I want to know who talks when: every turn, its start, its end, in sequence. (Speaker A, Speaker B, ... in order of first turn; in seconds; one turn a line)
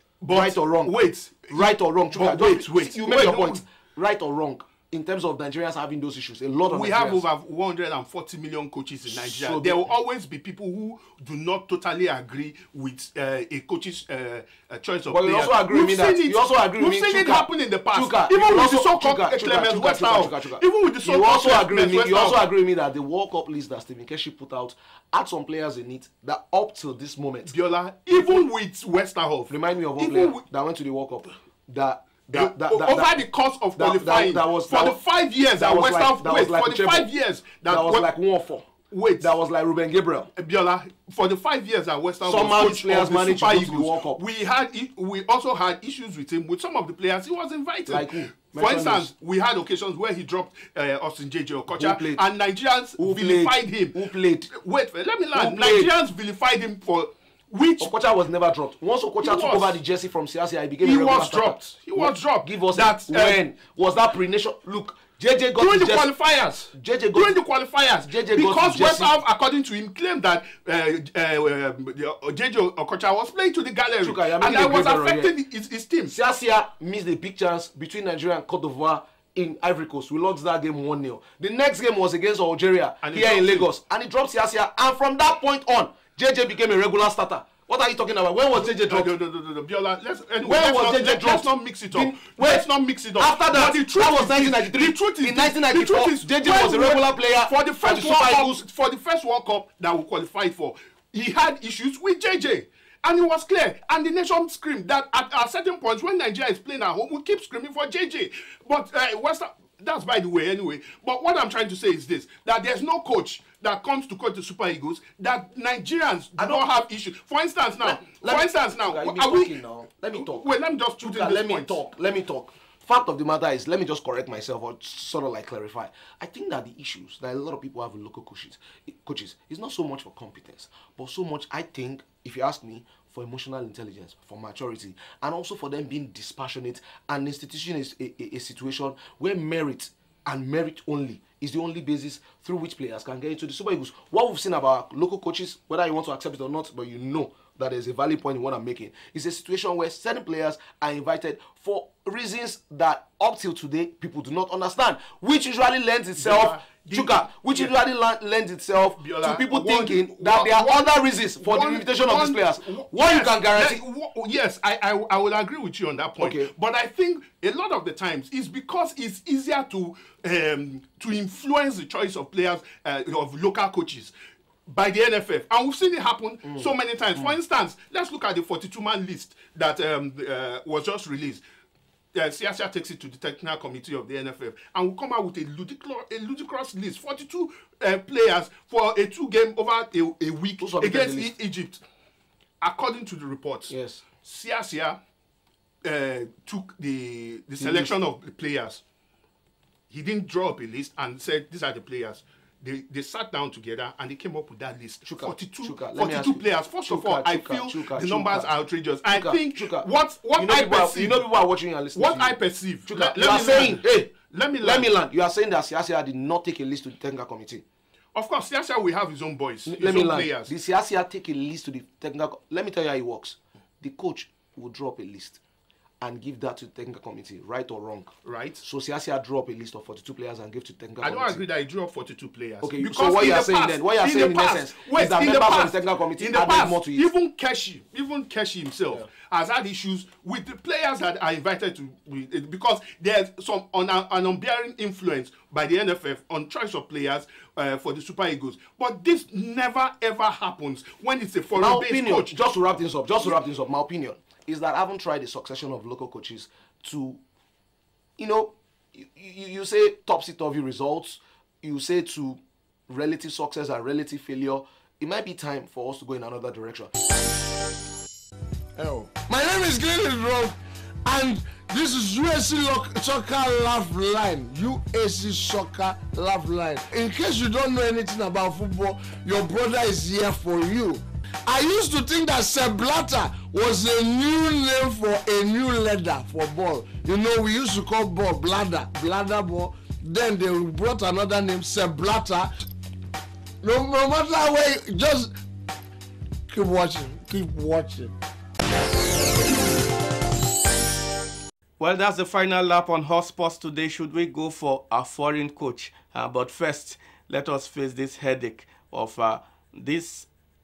Speaker A: 0.2-3.6
Speaker B: 0.3-1.0
Speaker B: 1.5-7.2
Speaker A: 6.7-22.4
Speaker B: 9.1-9.8
Speaker B: 15.1-27.5
Speaker A: 27.5-30.4
Speaker B: 28.1-28.4
Speaker B: 29.5-33.2
Speaker A: 32.3-38.1
Speaker B: 33.8-35.0
Speaker B: 35.6-37.1
Speaker B: 37.7-40.3
Speaker A: 38.9-39.3
Speaker A: 40.4-57.9
Speaker B: 42.2-44.2
Speaker B: 47.9-49.1
Speaker B: 51.7-52.2
Speaker B: 53.0-54.5
Speaker B: 55.3-55.9
Speaker B: 57.8-66.1
Speaker A: 59.2-59.8
Speaker A: 60.8-63.4
Speaker A: 65.6-76.2
Speaker B: 66.7-67.4
Speaker B: 68.1-69.1
Speaker B: 74.0-75.3
Speaker B: 76.1-89.1
Speaker A: 83.0-83.7
Speaker A: 88.5-119.5
Speaker B: 90.4-98.6
Speaker B: 116.4-116.7
Speaker B: 117.8-120.5
Speaker A: 120.1-121.8
Speaker B: 121.0-163.8
Speaker A: 156.2-157.7
Speaker A: 159.0-174.1
Speaker B: 166.2-166.5
Speaker A: 174.7-181.4
Speaker B: 176.5-177.4
Speaker A: 182.1-191.8
Speaker B: 190.6-191.3
Speaker A: 192.6-195.0
Speaker B: 193.7-194.0
Speaker A: 195.8-198.8
Speaker B: 197.6-197.9
Speaker A: 199.9-211.3
Speaker B: 205.1-208.5
Speaker B: 209.1-217.6
Speaker A: 211.9-214.9
Speaker A: 218.2-220.5
Speaker B: 219.7-225.4
Speaker B: 226.0-231.4
Speaker A: 228.2-228.6
Speaker A: 231.0-252.3
Speaker B: 232.6-237.1
Speaker B: 251.6-257.2
Speaker B: 258.2-266.9
Speaker C: 268.8-292.5
Speaker C: 293.6-295.3
Speaker C: 296.5-298.2
Speaker D: 301.8-310.3